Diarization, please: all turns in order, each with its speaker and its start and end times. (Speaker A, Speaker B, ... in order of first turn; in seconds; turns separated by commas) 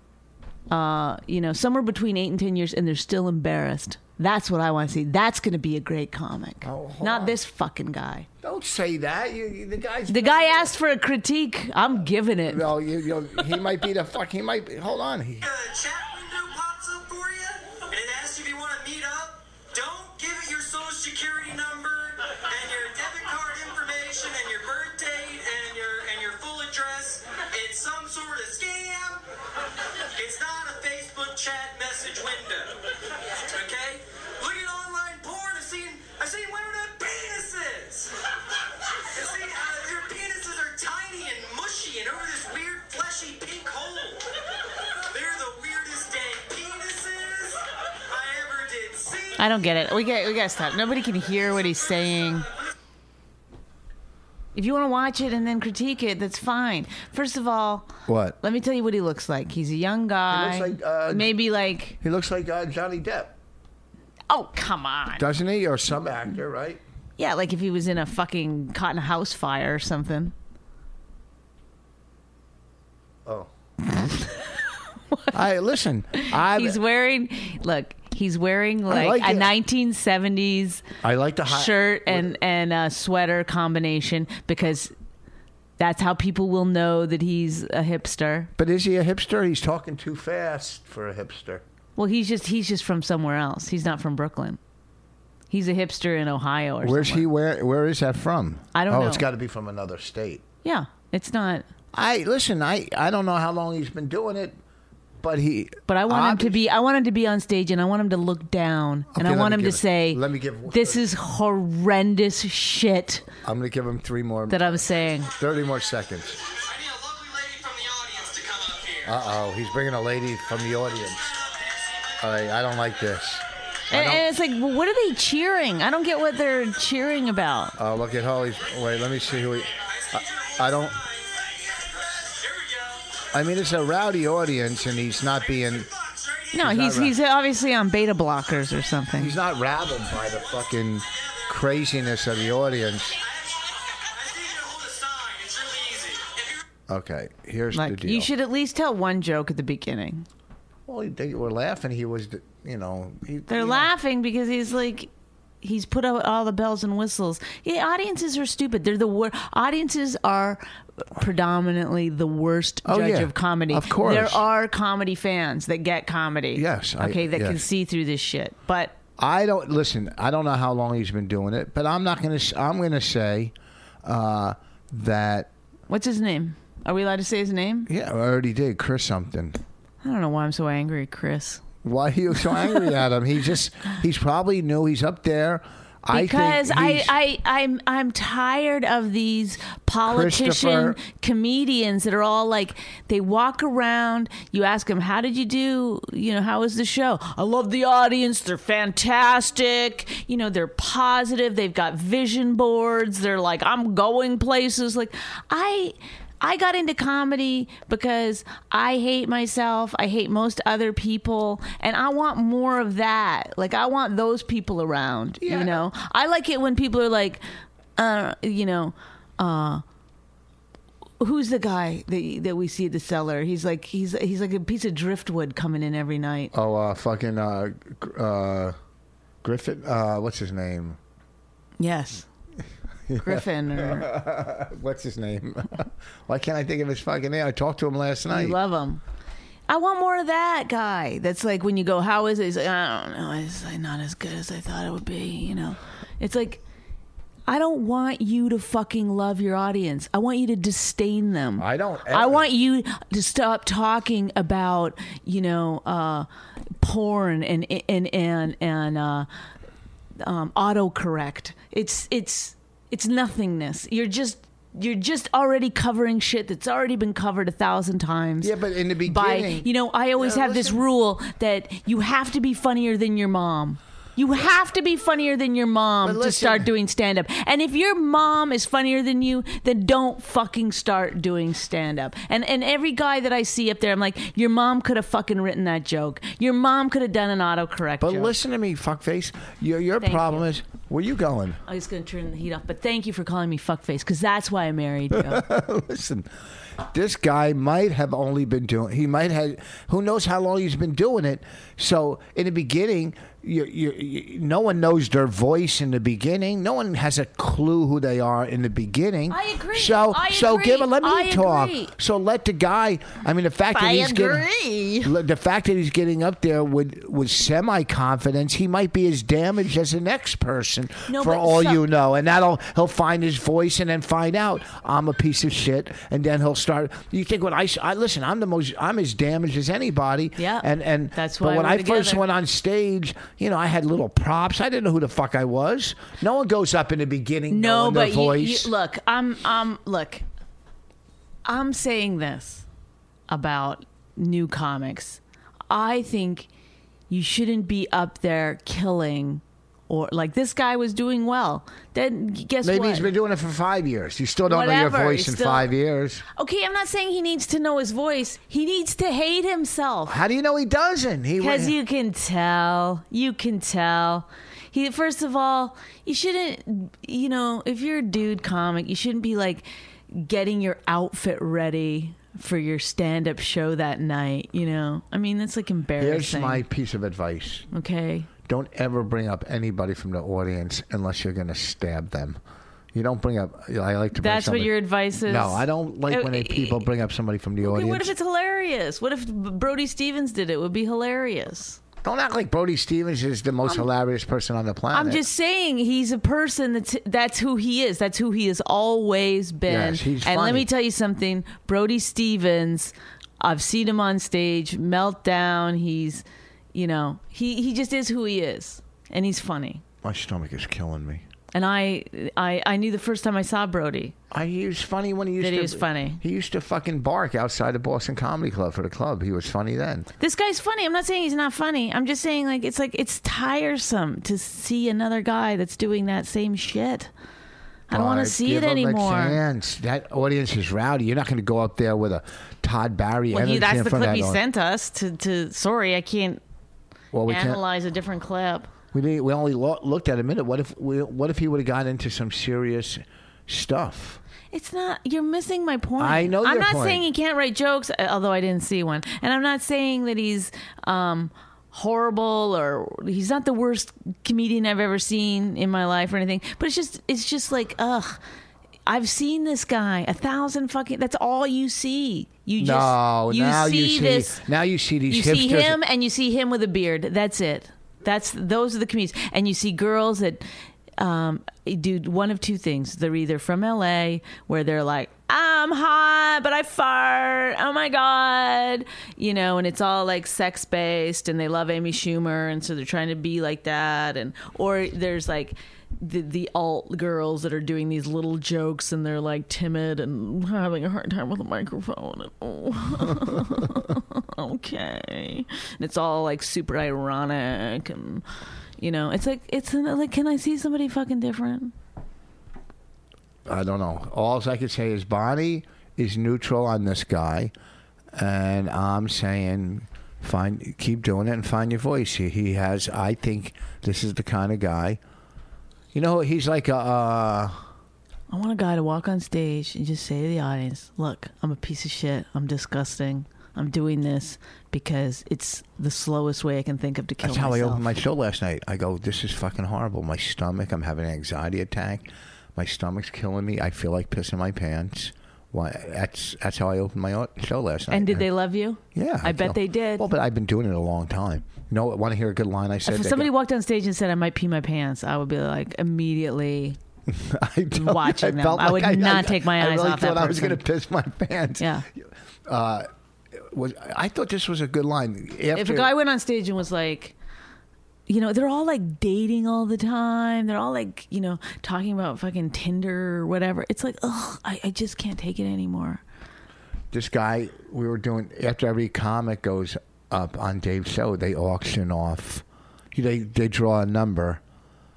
Speaker A: 0.7-8.3, Speaker B: 6.6-7.4, Speaker B: 8.4-10.7, Speaker A: 10.1-12.7, Speaker B: 12.5-15.4, Speaker C: 15.4-29.2, Speaker C: 30.1-32.8, Speaker C: 33.4-38.1, Speaker C: 39.1-44.2, Speaker C: 45.1-49.4, Speaker A: 49.4-52.5, Speaker A: 54.5-57.9, Speaker B: 58.1-58.4, Speaker A: 58.4-62.0, Speaker B: 60.3-61.3, Speaker B: 62.0-63.3, Speaker A: 64.3-65.2, Speaker B: 65.2-66.8, Speaker A: 67.2-70.3, Speaker B: 73.2-74.1, Speaker B: 75.3-76.8, Speaker A: 76.2-80.8, Speaker B: 78.9-79.5, Speaker B: 81.0-82.4, Speaker A: 81.5-84.9, Speaker A: 85.8-88.5, Speaker B: 88.6-91.6, Speaker A: 92.0-94.6, Speaker A: 95.5-97.3, Speaker B: 96.8-100.4, Speaker A: 98.7-99.2, Speaker A: 100.6-101.6, Speaker B: 101.9-104.6, Speaker B: 105.2-106.6, Speaker A: 105.9-113.2, Speaker B: 109.1-111.0, Speaker B: 113.4-116.4, Speaker A: 114.5-115.3, Speaker C: 116.5-119.2, Speaker B: 119.0-121.3, Speaker C: 121.1-122.2, Speaker B: 122.2-124.2, Speaker A: 123.9-127.7, Speaker B: 127.8-129.7, Speaker C: 129.8-133.0, Speaker B: 130.6-131.0, Speaker B: 133.3-135.9, Speaker C: 135.4-136.6, Speaker A: 136.5-139.3, Speaker B: 136.6-137.1, Speaker B: 139.2-143.2, Speaker C: 141.1-141.6, Speaker C: 143.2-146.6, Speaker B: 146.9-148.3, Speaker A: 147.7-150.3, Speaker B: 150.9-153.9, Speaker A: 153.5-155.1, Speaker A: 155.6-168.9, Speaker B: 162.8-164.4, Speaker B: 166.5-167.6, Speaker B: 169.2-175.5, Speaker A: 175.9-177.9, Speaker B: 177.8-179.6, Speaker A: 180.0-181.6, Speaker B: 181.8-187.1, Speaker A: 186.1-217.4, Speaker B: 190.1-191.0, Speaker B: 215.4-215.8, Speaker A: 218.0-219.8, Speaker A: 221.2-226.5, Speaker B: 226.5-228.8, Speaker B: 229.4-231.0, Speaker A: 231.8-232.2, Speaker B: 233.1-238.6, Speaker A: 233.2-234.1, Speaker A: 238.3-239.0, Speaker A: 239.7-246.6, Speaker A: 247.5-256.3, Speaker B: 251.6-252.5, Speaker A: 256.8-259.3, Speaker A: 260.2-268.5, Speaker B: 268.4-270.8, Speaker A: 269.0-288.3, Speaker B: 276.0-276.7, Speaker B: 288.0-291.6, Speaker A: 290.0-290.4, Speaker A: 291.6-295.4, Speaker B: 295.1-296.3, Speaker B: 296.8-314.5, Speaker A: 309.3-311.9, Speaker A: 313.7-315.1, Speaker B: 315.0-338.7, Speaker A: 321.1-321.8, Speaker A: 330.4-332.2, Speaker A: 337.5-340.2, Speaker A: 341.4-342.6, Speaker A: 343.3-346.5, Speaker A: 347.1-353.1, Speaker B: 352.6-356.2, Speaker A: 354.5-355.7, Speaker A: 356.3-360.2, Speaker B: 360.1-361.7, Speaker A: 361.4-376.6, Speaker B: 376.0-377.7, Speaker A: 377.7-378.3, Speaker B: 378.5-382.4, Speaker B: 382.9-384.7, Speaker A: 384.1-386.8, Speaker B: 385.2-388.1, Speaker A: 387.6-391.8, Speaker B: 392.0-395.2, Speaker A: 394.9-409.8, Speaker B: 399.7-400.7, Speaker B: 410.0-411.2, Speaker A: 411.5-414.1, Speaker B: 414.3-420.1, Speaker A: 415.4-416.2, Speaker A: 420.2-427.1, Speaker A: 427.9-429.4, Speaker B: 427.9-434.4, Speaker A: 433.3-436.4, Speaker B: 437.1-437.6, Speaker A: 437.3-438.7, Speaker B: 438.9-444.2, Speaker A: 444.5-458.2, Speaker B: 446.0-447.0, Speaker A: 458.9-464.4, Speaker B: 462.6-465.8, Speaker A: 465.1-470.4, Speaker A: 471.0-498.2, Speaker A: 498.8-501.7, Speaker B: 503.4-507.5, Speaker B: 508.1-515.0, Speaker B: 515.9-517.7, Speaker A: 518.3-527.8, Speaker B: 527.2-538.2, Speaker A: 537.9-540.1, Speaker B: 538.9-543.3, Speaker A: 542.8-546.8, Speaker B: 547.1-555.9, Speaker A: 547.7-550.6, Speaker A: 551.6-551.9, Speaker A: 555.5-557.1, Speaker A: 558.1-566.0, Speaker B: 566.9-574.4